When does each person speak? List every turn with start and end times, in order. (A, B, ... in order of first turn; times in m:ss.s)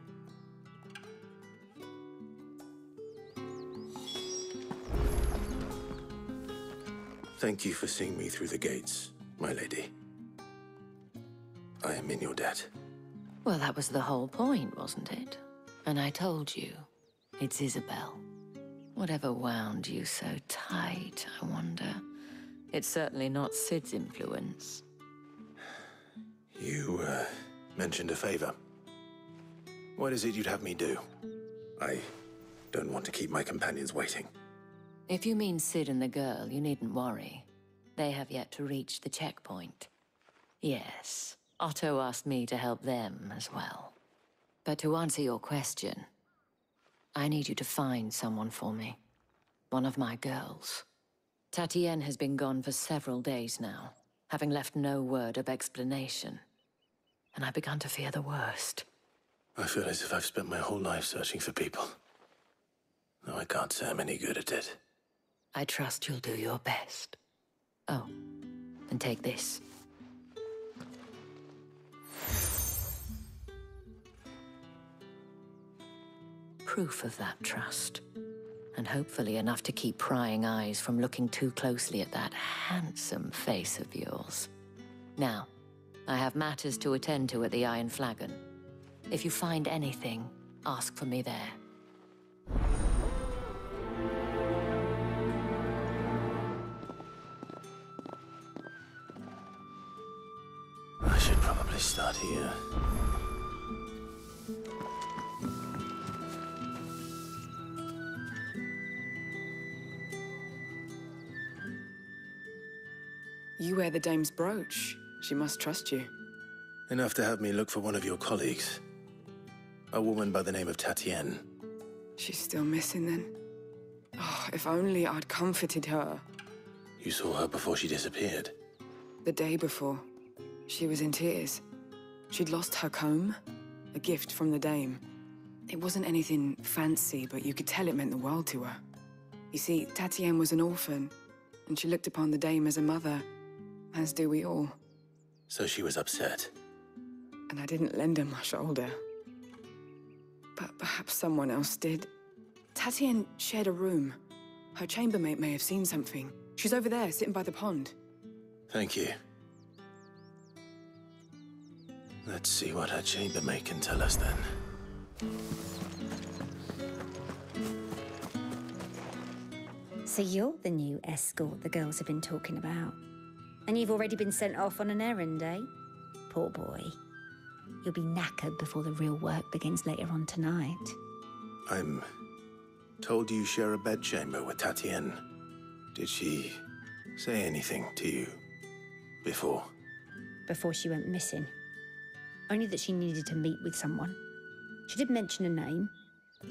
0:07.4-0:09.9 A
0:11.8-0:12.7 A
0:13.4-0:16.9 B
0:17.4-0:18.2 B
0:19.0-0:22.0 B
0:22.7-0:24.8 B
0:26.5-0:28.6 A
0:30.0-0:31.0 A
0:31.8-0:32.1 A
0:32.7-0:34.3 A
0:35.1-0:39.9 B
0:40.6-0:43.9 B
0:44.6-0:46.1 B
0:47.2-0:49.0 B
0:49.7-0:50.8 B
0:51.5-0:56.4 B
0:57.3-0:58.8 B
0:59.6-1:02.0 A
1:03.2-1:04.8 A
1:05.5-1:07.2 B
1:08.9-1:09.6 B
1:16.7-1:18.0 B
1:18.8-1:24.5 B
1:25.2-1:25.5 B
1:26.1-1:28.4 B
1:29.1-1:31.6 B
1:41.0-1:42.6 A
1:53.6-1:56.1 C
1:56.9-1:58.8 A
1:59.9-2:01.4 A
2:02.2-2:03.3 C
2:04.2-2:06.2 C
2:07.0-2:08.5 A
2:09.2-2:10.1 C
2:10.7-2:11.6 C
2:12.3-2:13.4 C
2:13.9-2:15.0 C
2:15.7-2:18.8 C
2:19.5-2:21.1 C
2:21.7-2:23.3 C
2:23.9-2:24.8 C
2:25.5-2:26.5 A
2:27.5-2:29.0 C
2:30.6-2:32.1 C
2:32.8-2:34.2 C
2:34.8-2:37.9 C
2:38.7-2:39.1 A
2:42.2-2:44.5 A
2:50.1-2:53.0 D
2:53.7-2:55.7 D
2:56.3-2:57.0 D
2:57.8-3:01.0 D
3:01.7-3:02.0 A
3:03.0-3:05.2 A
3:06.0-3:06.6 A
3:07.2-3:08.4 A
3:09.2-3:09.7 A
3:10.5-3:11.5 D
3:12.5-3:14.2 D
3:14.9-3:15.9 D